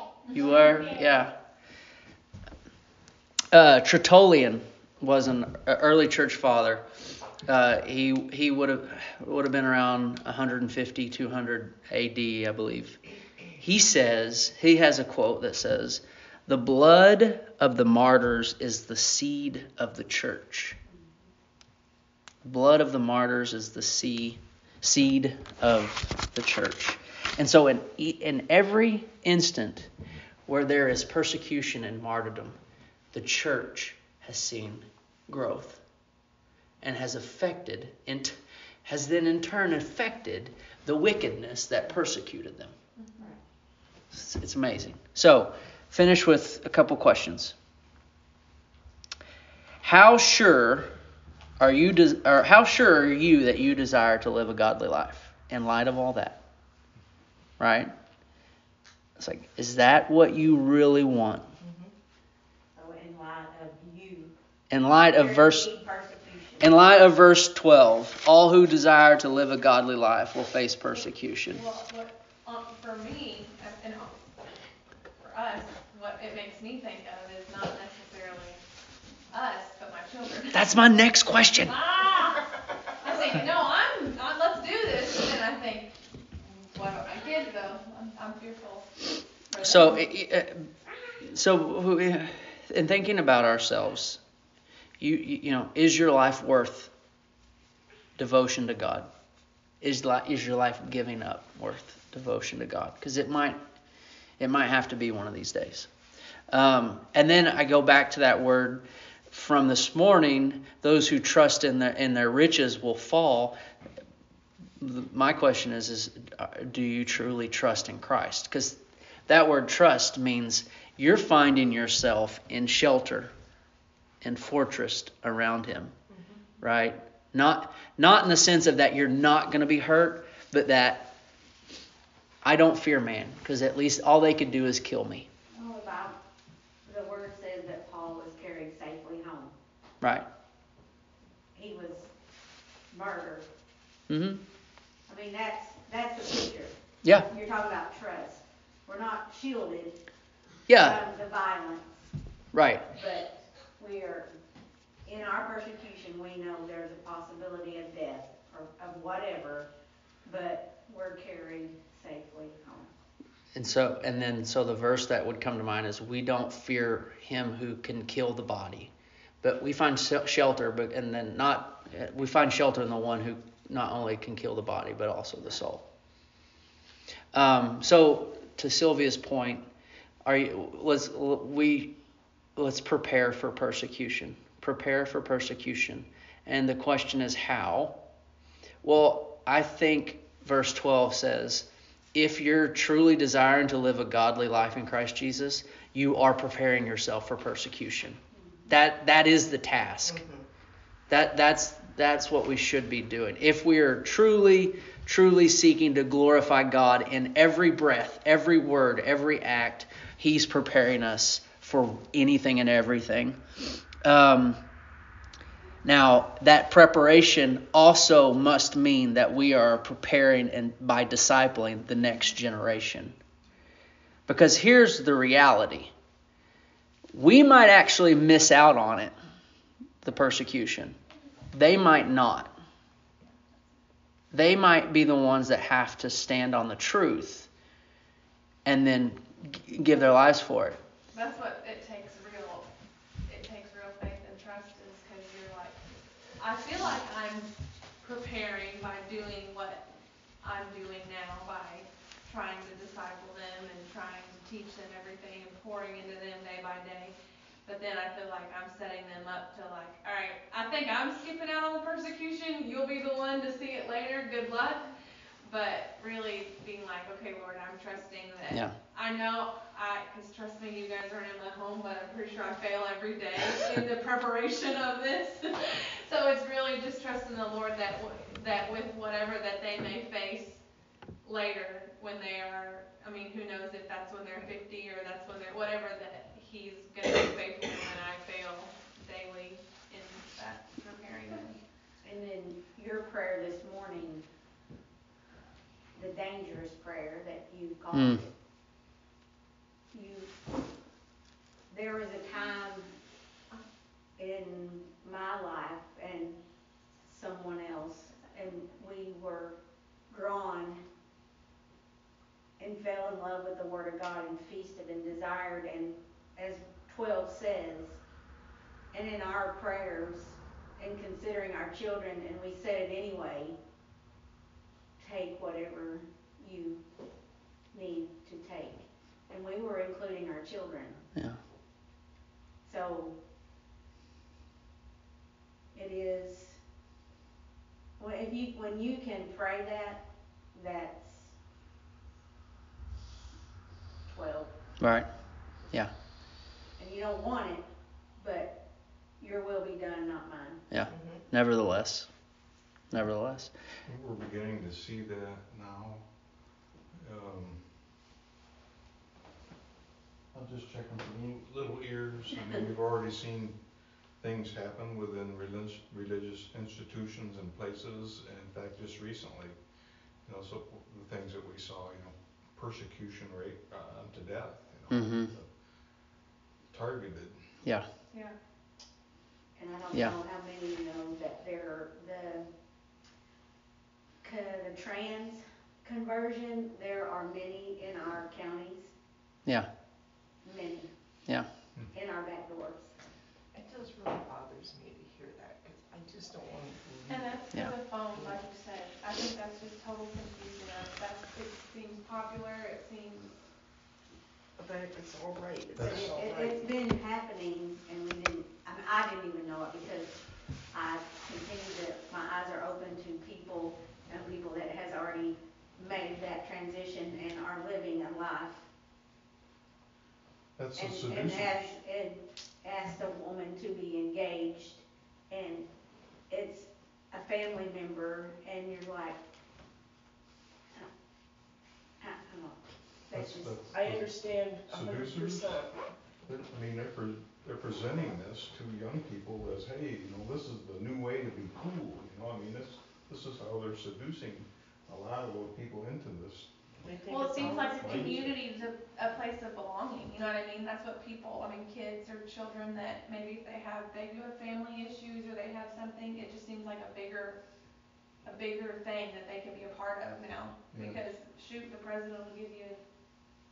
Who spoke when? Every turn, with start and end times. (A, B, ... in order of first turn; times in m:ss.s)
0:00.3-0:01.3 A
0:00.3-0:01.0 B
0:03.5-0:06.9 A
0:07.4-0:13.0 A
0:13.6-0:20.8 A
0:22.4-0:29.9 A
0:30.5-0:32.6 A
0:33.1-0:35.8 A
0:36.8-0:42.7 A
0:43.0-0:43.2 B
0:44.1-0:47.5 A
0:49.8-0:50.9 A
0:51.6-0:56.4 A
0:57.6-0:57.9 A
0:59.2-1:01.5 A
1:01.6-1:01.9 C
1:02.8-1:04.3 D
1:04.7-1:05.7 A
1:05.0-1:06.8 D
1:06.6-1:11.6 A
1:10.9-1:14.4 B
1:15.2-1:18.6 B
1:19.3-1:20.8 B
1:20.5-1:21.8 A
1:21.6-1:22.4 B
1:23.0-1:30.0 B
1:29.6-1:30.7 A
1:31.2-1:34.2 A
1:35.0-1:36.9 A
1:38.2-1:39.1 A
1:39.8-1:43.6 A
1:44.4-1:45.9 A
1:46.5-1:53.6 A
1:54.8-2:03.3 A
2:04.2-2:05.9 A
2:06.1-2:06.4 C
2:06.6-2:11.1 A
2:12.4-2:15.3 A
2:15.5-2:16.2 D
2:16.8-2:19.5 D
2:20.0-2:20.2 A
2:21.5-2:22.1 D
2:22.9-2:23.5 D
2:24.1-2:24.4 A
2:25.1-2:26.7 D
2:27.3-2:30.0 D
2:30.7-2:31.0 A
2:30.7-2:32.1 D
2:32.5-2:32.9 A
2:32.9-2:34.3 D
2:35.0-2:39.7 D
2:40.2-2:42.9 D
2:43.5-2:48.9 A
2:49.4-2:55.8 A
2:57.3-2:59.7 A
3:00.2-3:02.0 A
3:02.6-3:08.0 A
3:08.8-3:20.2 A
3:20.0-3:20.4 C
3:21.1-3:33.4 A
3:34.0-3:34.6 A
3:35.8-3:43.2 A
3:44.3-3:45.9 A
3:47.1-3:49.1 A
3:50.0-3:51.0 A
3:51.5-3:52.5 A
3:54.3-3:57.5 A
3:58.6-4:00.8 A
4:01.1-4:02.7 B
4:03.3-4:05.8 B
4:06.4-4:09.8 B
4:10.4-4:17.1 B
4:17.6-4:24.9 B
4:25.4-4:40.6 B
4:41.2-4:51.6 B
4:52.0-4:54.2 D
4:56.0-4:58.3 D
4:57.9-4:58.2 A
4:59.9-5:00.3 D
5:01.7-5:02.9 D
5:04.2-5:06.4 D
5:07.0-5:09.6 D
5:10.1-5:10.8 D
5:12.6-5:18.0 D
5:18.9-5:23.6 D
5:25.0-5:26.8 D
5:27.7-5:31.0 D
5:32.6-5:33.2 D
5:35.7-5:36.6 D
5:38.0-5:40.0 D
5:40.5-5:41.3 D
5:44.1-5:44.5 D
5:44.8-5:45.1 A
5:46.8-5:47.6 D
5:48.2-5:48.6 D
5:49.2-5:50.6 D
5:50.7-5:52.1 A
5:50.9-5:51.2 C
5:52.9-5:53.5 A
5:53.8-5:56.0 E
5:56.9-5:57.7 E
6:00.3-6:03.6 E
6:04.2-6:09.6 E
6:10.2-6:15.6 E
6:14.9-6:15.3 A
6:16.7-6:17.6 E
6:18.1-6:18.3 B
6:19.6-6:22.5 D
6:24.2-6:28.9 D
6:30.4-6:30.9 D
6:31.9-6:32.9 D
6:33.5-6:37.3 C
6:37.1-6:43.3 B
6:44.6-6:46.7 C
6:45.8-6:46.1 E
6:45.8-6:50.1 D
6:50.7-6:58.6 D
7:00.6-7:01.5 E
7:00.8-7:05.6 D
7:06.3-7:09.2 D
7:12.0-7:13.6 D
7:13.1-7:14.1 E
7:13.7-7:15.8 C
7:14.7-7:15.6 E
7:16.2-7:26.5 E
7:26.8-7:28.3 C
7:27.1-7:37.4 B
7:27.3-7:28.4 E
7:38.2-7:42.8 B
7:40.7-7:41.0 E